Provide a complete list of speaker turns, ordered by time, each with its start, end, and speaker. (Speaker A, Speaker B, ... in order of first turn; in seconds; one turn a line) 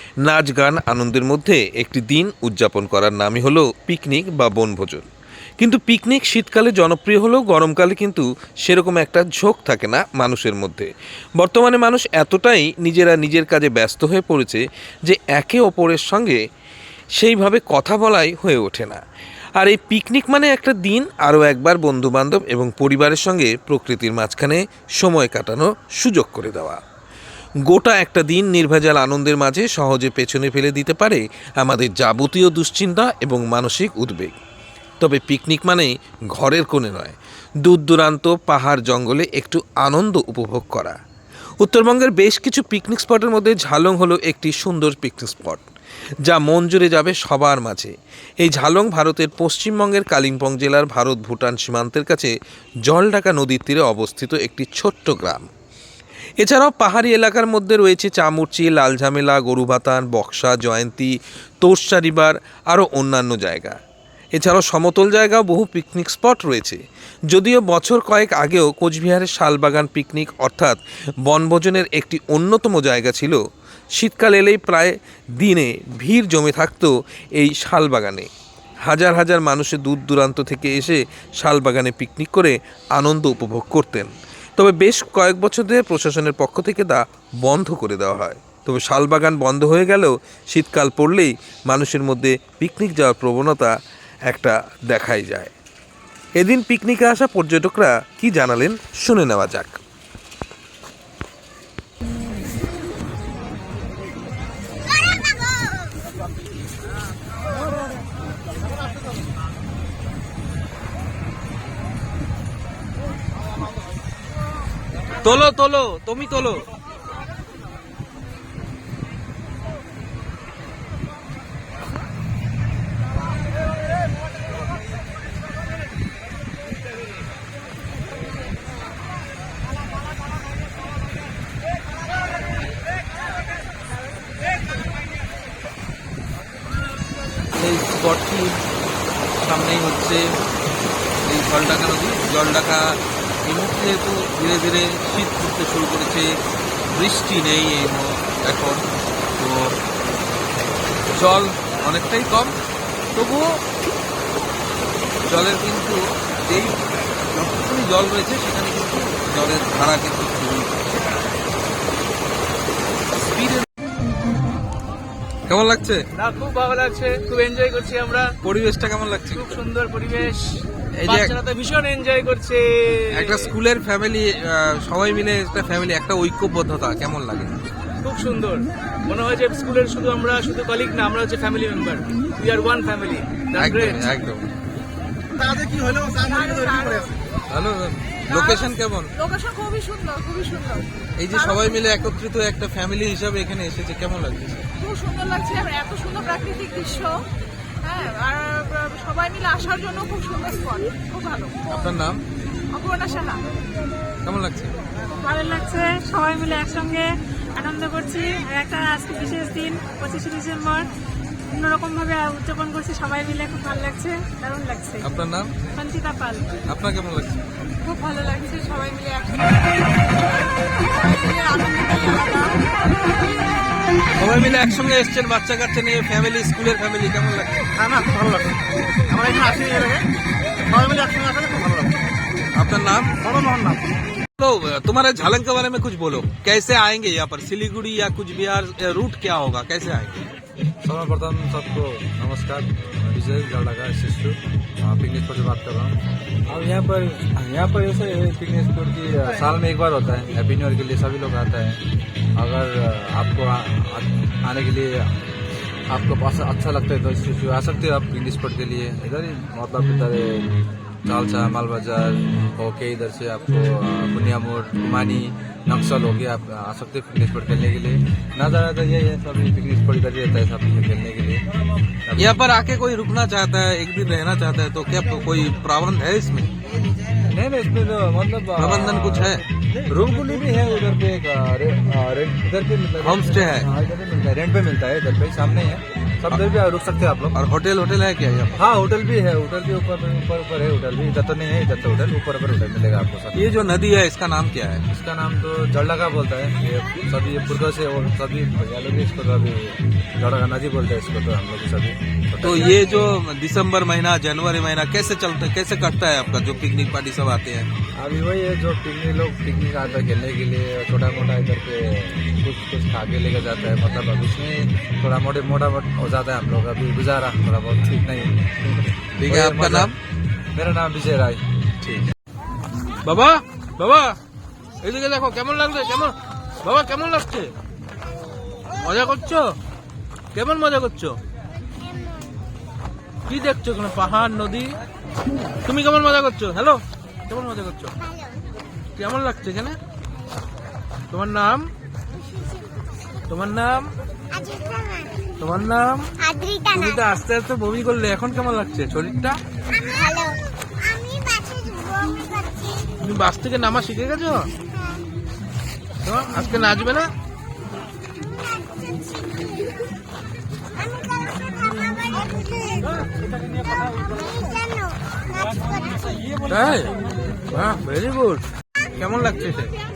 Speaker A: 0.2-5.1
Speaker A: 5.6-16.4
Speaker A: 17.2-19.0
Speaker A: 19.6-26.8
Speaker A: 27.7-34.4
Speaker A: 35.0-41.0
Speaker A: 41.6-45.6
Speaker A: 46.2-52.3
Speaker A: 52.9-55.5
Speaker A: 56.4-63.8
Speaker A: 64.3-73.4
Speaker A: 74.0-78.3
Speaker A: 78.9-93.7
Speaker A: 94.3-95.5
Speaker A: 96.4-99.8
Speaker A: 115.2-116.6
Speaker A: 137.6-138.6
Speaker A: 139.4-140.2
Speaker A: 141.2-146.3
Speaker A: 146.9-148.8
Speaker A: 149.4-149.7
Speaker A: 151.1-152.6
Speaker A: 153.2-153.5
Speaker A: 155.3-160.9
Speaker A: 163.2-163.7
Speaker A: 165.5-166.0
Speaker B: 166.2-168.3
Speaker A: 168.4-169.7
Speaker B: 169.3-173.6
Speaker A: 171.0-171.4
Speaker A: 173.1-177.6
Speaker B: 178.0-184.0
Speaker A: 183.6-184.2
Speaker C: 183.9-184.5
Speaker D: 186.1-187.2
Speaker C: 187.5-187.9
Speaker A: 188.3-189.1
Speaker D: 188.3-191.8
Speaker A: 191.2-194.7
Speaker D: 194.8-197.2
Speaker D: 197.8-201.7
Speaker A: 201.7-202.2
Speaker D: 202.7-203.4
Speaker A: 204.2-204.7
Speaker E: 205.2-210.9
Speaker E: 211.5-215.1
Speaker A: 215.0-215.5
Speaker E: 215.7-216.6
Speaker A: 216.7-217.3
Speaker D: 217.9-219.7
Speaker E: 220.9-222.5
Speaker A: 224.2-227.9
Speaker D: 229.1-229.5
Speaker A: 232.6-233.5
Speaker A: 234.4-240.2
Speaker C: 240.8-246.0
Speaker C: 246.5-251.8
Speaker C: 252.4-255.1
Speaker C: 255.9-260.5
Speaker C: 261.1-271.4
Speaker C: 272.1-272.4
Speaker A: 272.2-276.5
Speaker C: 277.3-287.4
Speaker A: 278.6-279.4
Speaker A: 283.0-283.7
Speaker A: 287.3-288.6
Speaker C: 288.6-293.7
Speaker A: 293.4-294.8
Speaker C: 294.9-303.0
Speaker A: 302.4-307.7
Speaker C: 308.0-320.0
Speaker A: 319.3-319.9
Speaker C: 320.5-321.4
Speaker A: 321.8-322.1
Speaker A: 323.1-324.2
Speaker A: 324.8-327.5
Speaker A: 328.8-329.5
Speaker A: 330.3-331.2
Speaker A: 333.3-334.7
Speaker A: 335.7-337.9
Speaker A: 339.0-339.8
Speaker A: 341.1-341.7
Speaker A: 343.3-343.9
Speaker A: 345.4-346.1
Speaker A: 346.6-349.4
Speaker A: 353.0-354.5
Speaker A: 356.0-357.1
Speaker A: 366.5-366.9
Speaker A: 367.5-368.4
Speaker A: 369.0-369.7